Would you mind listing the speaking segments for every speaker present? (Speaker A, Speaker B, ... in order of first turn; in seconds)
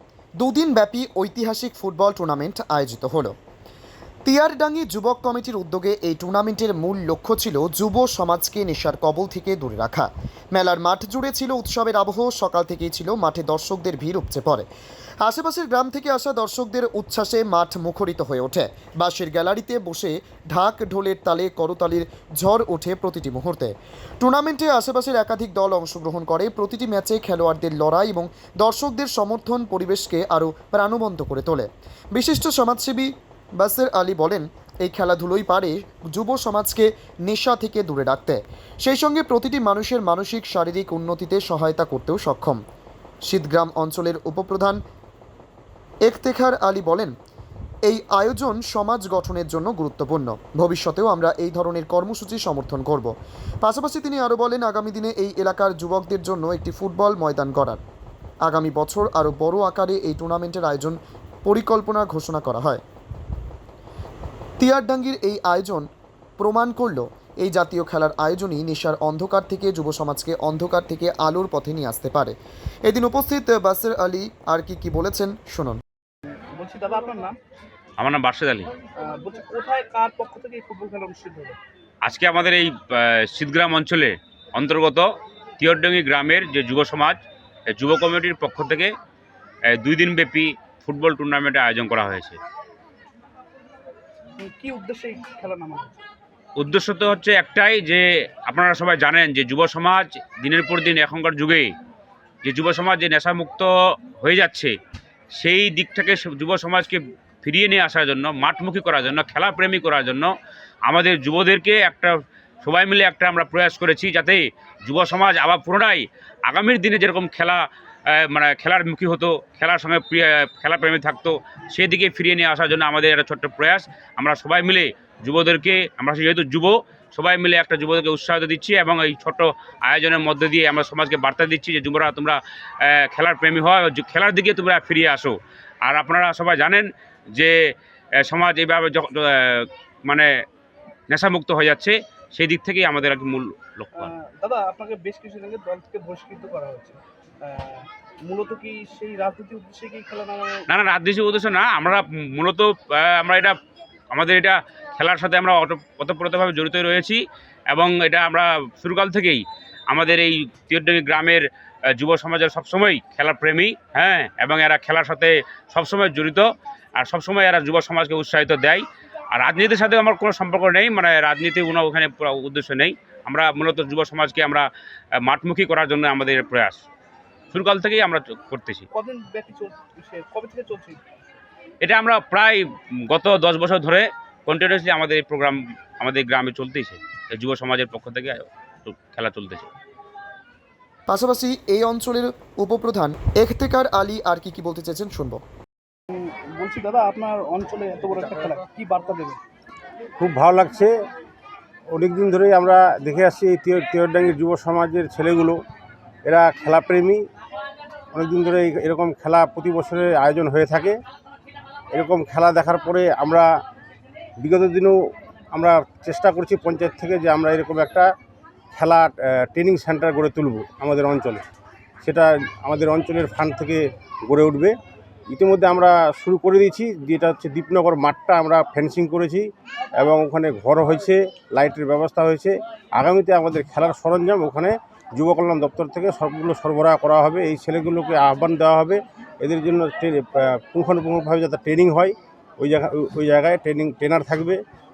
Speaker A: 0.4-3.3, 4.2-14.7, 15.2-42.6, 43.3-44.8, 46.1-47.1, 47.9-53.1, 53.6-57.8, 58.5-62.8, 64.6-65.9, 66.4-75.8, 191.1-195.4
Speaker B: 76.5-77.4, 79.0-81.6, 94.4-96.0, 144.0-150.6, 178.9-181.0, 196.1-199.4
Speaker C: 78.0-78.7, 82.0-85.1, 85.6-87.2, 87.7-88.9, 89.7-92.4, 96.6-101.7, 102.4-104.8, 105.3-110.3, 110.9-137.5, 138.2-140.3, 141.1-144.1, 150.7-153.6, 154.1-166.5, 167.0-174.7, 175.2-176.8, 177.5-178.8, 181.8-189.7
Speaker D: 200.2-200.9, 201.9-205.6, 206.2-207.2, 208.1-211.0, 211.9-213.5, 214.4-215.0, 215.5-218.1, 218.7-221.4, 222.0-224.8, 225.3-229.5, 230.0-244.6